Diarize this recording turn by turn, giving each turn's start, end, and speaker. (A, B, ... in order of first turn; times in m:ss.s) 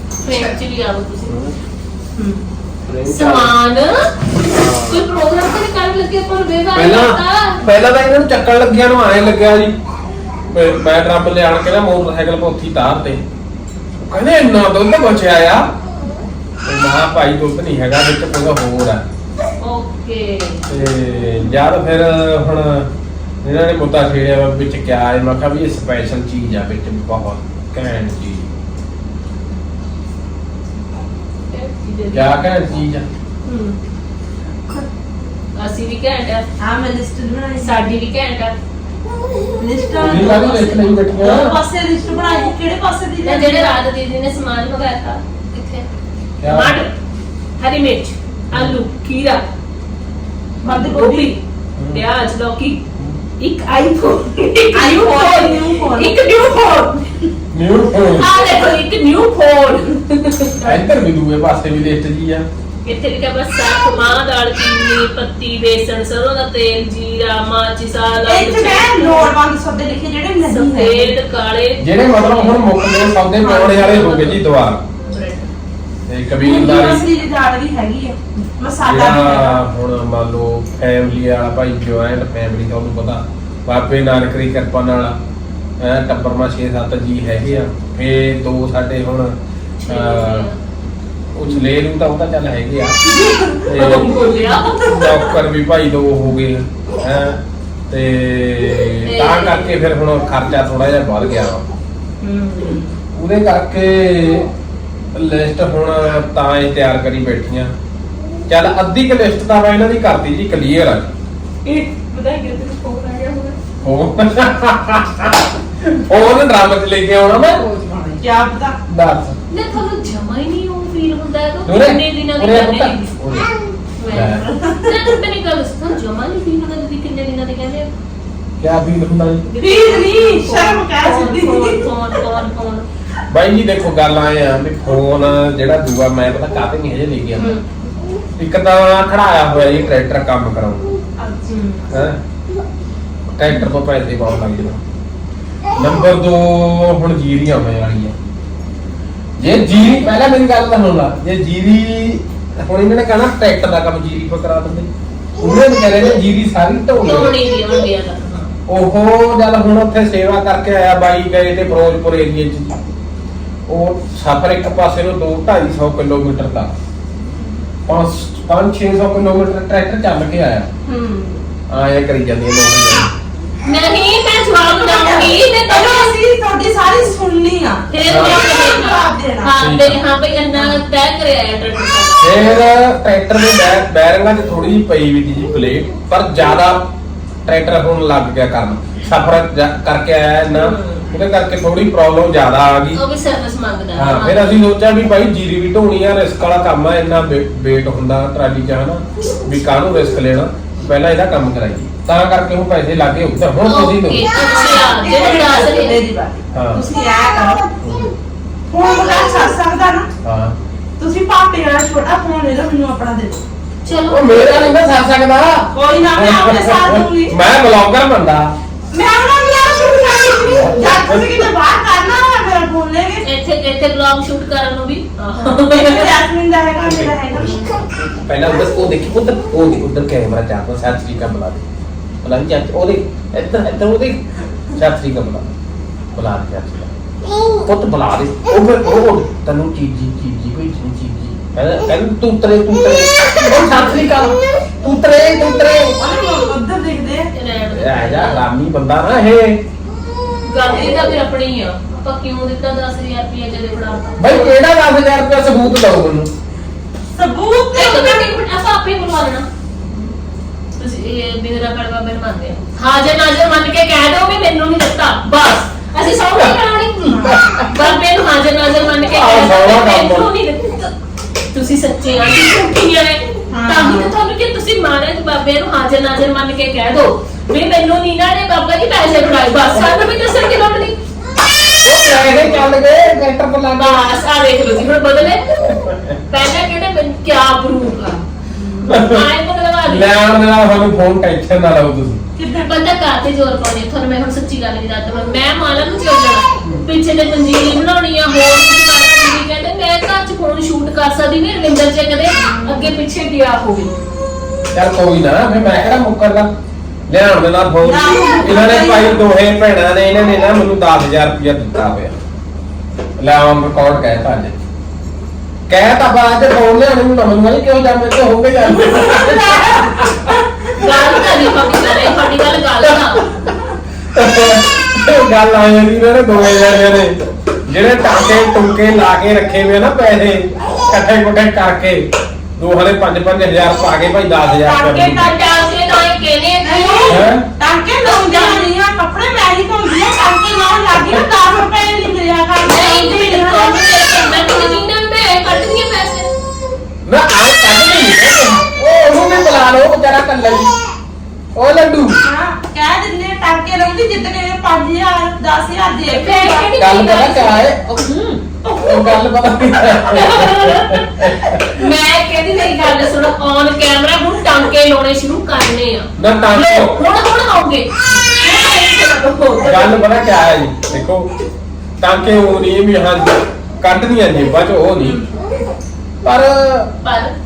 0:00.2-0:01.4 A
0:01.2-0:01.5 B
0:02.8-0:03.5 B
0:03.0-0:04.1 A
0:04.5-0:05.0 B
0:04.8-0:07.6 A
0:06.7-0:09.7 B
0:10.5-0:13.2 B
0:14.0-0:15.7 B
0:16.6-0:19.0 B
0:19.6-0:20.6 A
0:20.7-0:22.9 B
0:23.4-0:28.5 B
0:31.4-0:32.4 A
0:32.1-0:33.0 B
0:33.5-0:33.8 A
0:35.6-0:36.5 A
0:36.6-0:37.9 C
0:37.6-0:38.6 A
0:39.5-0:43.8 C
0:40.0-0:41.6 B
0:40.1-0:40.8 A
0:43.2-0:45.8 A
0:46.4-0:46.7 B
0:46.4-0:46.9 A
0:47.6-0:49.4 A
0:48.5-0:48.8 B
0:50.6-0:52.8 A
0:50.6-0:51.3 C
0:51.8-0:52.0 B
0:53.4-0:57.0 A
0:54.7-0:56.2 C
0:57.5-0:58.3 B
0:58.0-1:00.8 A
1:00.6-1:02.4 B
1:02.8-1:09.3 A
1:08.2-1:11.1 C
1:10.4-1:12.6 A
1:11.8-1:14.8 B
1:13.4-1:14.2 C
1:13.8-1:14.3 A
1:15.0-1:15.5 A
1:16.1-1:17.1 B
1:16.4-1:19.6 C
1:18.8-1:25.2 B
1:25.8-1:29.3 B
1:29.8-1:30.6 A
1:29.8-1:30.5 B
1:31.3-1:33.0 B
1:33.0-1:33.7 C
1:33.6-1:34.2 B
1:33.7-1:34.9 A
1:34.8-1:37.4 B
1:34.8-1:35.2 C
1:37.9-1:41.6 B
1:39.0-1:39.8 A
1:42.2-1:42.8 A
1:42.2-1:42.8 C
1:43.1-1:44.5 B
1:45.1-1:47.7 B
1:48.5-1:51.1 B
1:51.6-1:53.6 C
1:53.8-1:57.6 B
1:57.6-1:58.8 C
1:58.9-1:59.4 B
1:59.5-2:03.3 A
2:01.6-2:03.5 B
2:04.0-2:07.9 A
2:04.1-2:04.4 B
2:04.4-2:05.1 C
2:08.6-2:09.4 B
2:09.4-2:12.8 A
2:09.6-2:11.9 C
2:13.3-2:17.6 B
2:18.4-2:20.9 B
2:21.2-2:21.6 C
2:21.5-2:21.8 A
2:21.9-2:22.2 B
2:23.4-2:24.8 B
2:25.7-2:28.1 B
2:29.4-2:37.4 B
2:37.0-2:38.5 A
2:38.7-2:42.8 B
2:43.7-2:46.7 B
2:47.9-2:50.7 B
2:50.8-2:51.4 C
2:51.7-2:53.1 B
2:53.6-2:56.1 A
2:54.5-2:59.5 C
2:57.9-3:02.6 A
2:58.0-2:58.4 B
2:59.6-3:00.0 B
3:02.2-3:06.9 B
3:07.4-3:13.0 B
3:10.5-3:11.0 A
3:12.9-3:14.7 A
3:13.9-3:24.3 B
3:23.6-3:26.0 A
3:24.4-3:27.7 C
3:26.5-3:26.8 B
3:27.8-3:28.1 B
3:28.7-3:30.1 C
3:30.2-3:30.6 B
3:31.0-3:33.4 C
3:33.8-3:34.6 A
3:34.1-3:38.5 B
3:35.7-3:37.4 C
3:38.9-3:43.2 C
3:40.4-3:41.3 B
3:43.2-3:46.1 A
3:45.4-3:47.8 C
3:46.8-3:51.6 B
3:52.2-3:55.5 B
3:56.1-3:56.9 B
3:57.6-4:06.0 B
4:03.4-4:04.1 C
4:06.0-4:07.3 C
4:07.3-4:08.4 A
4:07.7-4:09.6 B
4:10.4-4:14.5 A
4:14.2-4:16.3 B
4:17.2-4:18.3 C
4:17.7-4:19.4 A
4:20.8-4:30.9 A
4:27.1-4:27.9 B
4:27.1-4:27.4 C
4:29.1-4:30.3 B
4:31.5-4:41.0 A
4:33.5-4:34.1 C
4:41.8-4:44.1 B
4:43.8-4:45.5 A
4:45.7-4:46.1 B
4:46.3-4:48.2 A
4:48.6-4:48.8 C
4:48.8-4:50.1 A
4:48.9-4:49.3 B
4:49.8-4:52.2 B
4:52.4-4:52.7 C
4:52.6-5:03.9 A
5:02.4-5:02.9 C
5:04.7-5:06.5 B
5:07.1-5:12.2 B
5:07.8-5:09.2 C
5:13.2-5:14.6 B
5:15.7-5:20.3 B
5:18.7-5:20.7 C
5:20.8-5:23.2 A
5:24.1-5:27.1 B
5:27.6-5:32.0 B
5:32.6-5:35.3 B
5:34.6-5:37.2 A
5:36.6-5:44.8 C
5:37.1-5:37.4 B
5:38.0-5:38.6 A
5:42.6-5:46.3 A
5:47.0-5:50.7 B
5:51.6-5:52.2 B
5:52.2-5:56.7 C
5:56.1-5:57.6 A
5:56.8-6:01.8 B
5:58.6-5:59.2 C
6:00.0-6:10.1 A
6:06.2-6:07.0 B
6:09.6-6:11.3 B
6:12.0-6:15.2 B
6:16.2-6:16.9 B
6:17.0-6:17.3 A